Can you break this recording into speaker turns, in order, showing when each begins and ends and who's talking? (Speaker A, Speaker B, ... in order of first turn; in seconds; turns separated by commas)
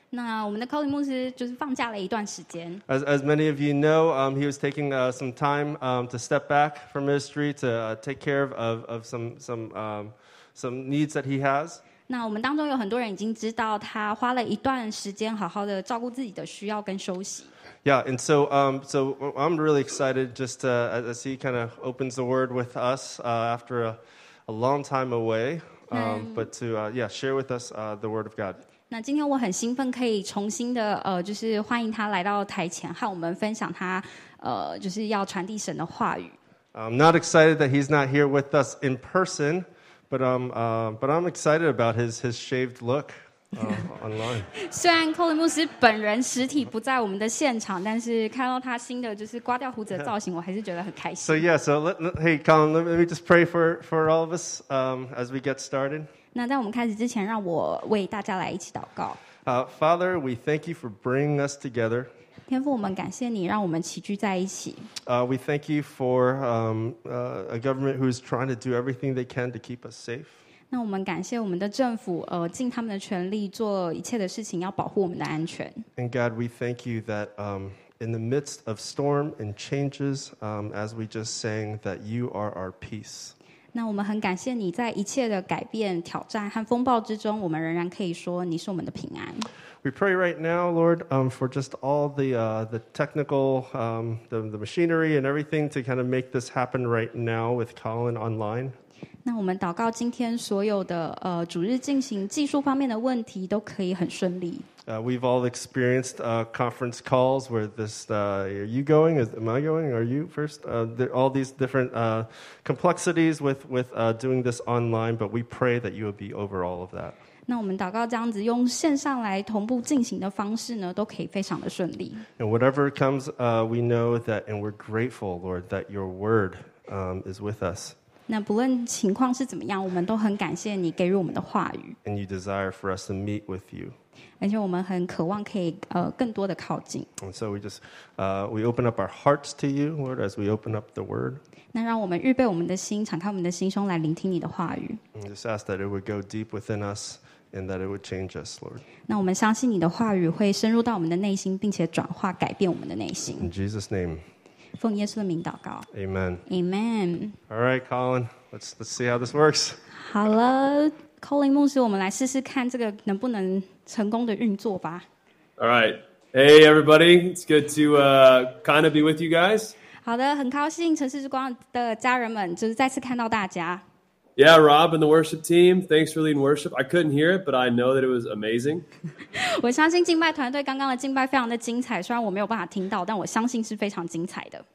Speaker A: 0.1-2.8, Speaker B: 2.9-11.8, Speaker A: 12.1-17.5, Speaker B: 17.8-28.6, Speaker A: 25.9-26.5, Speaker A: 28.9-36.4, Speaker B: 36.7-44.5, Speaker A: 44.5-51.5, Speaker B: 51.2-56.1, Speaker A: 56.3-59.2, Speaker B: 59.4-62.1, Speaker A: 62.5-64.9, Speaker B: 65.0-70.4, Speaker A: 70.7-75.9, Speaker B: 76.0-83.3, Speaker A: 83.7-89.5, Speaker B: 89.8-98.8, Speaker A: 99.2-104.7, Speaker B: 104.9-117.2, Speaker A: 117.5-122.3, Speaker B: 122.4-128.0, Speaker A: 128.3-132.0, Speaker B: 132.1-134.0, Speaker A: 134.4-137.1, Speaker B: 137.2-141.4, Speaker A: 141.7-145.0, Speaker B: 145.2-148.8, Speaker A: 149.1-153.5, Speaker B: 153.4-154.2, Speaker A: 154.8-155.9, Speaker B: 155.9-156.4, Speaker A: 156.5-157.4, Speaker B: 157.5-159.8, Speaker A: 159.9-165.1, Speaker C: 165.6-169.8, Speaker A: 170.0-173.8, Speaker C: 174.4-178.8, Speaker A: 179.3-184.7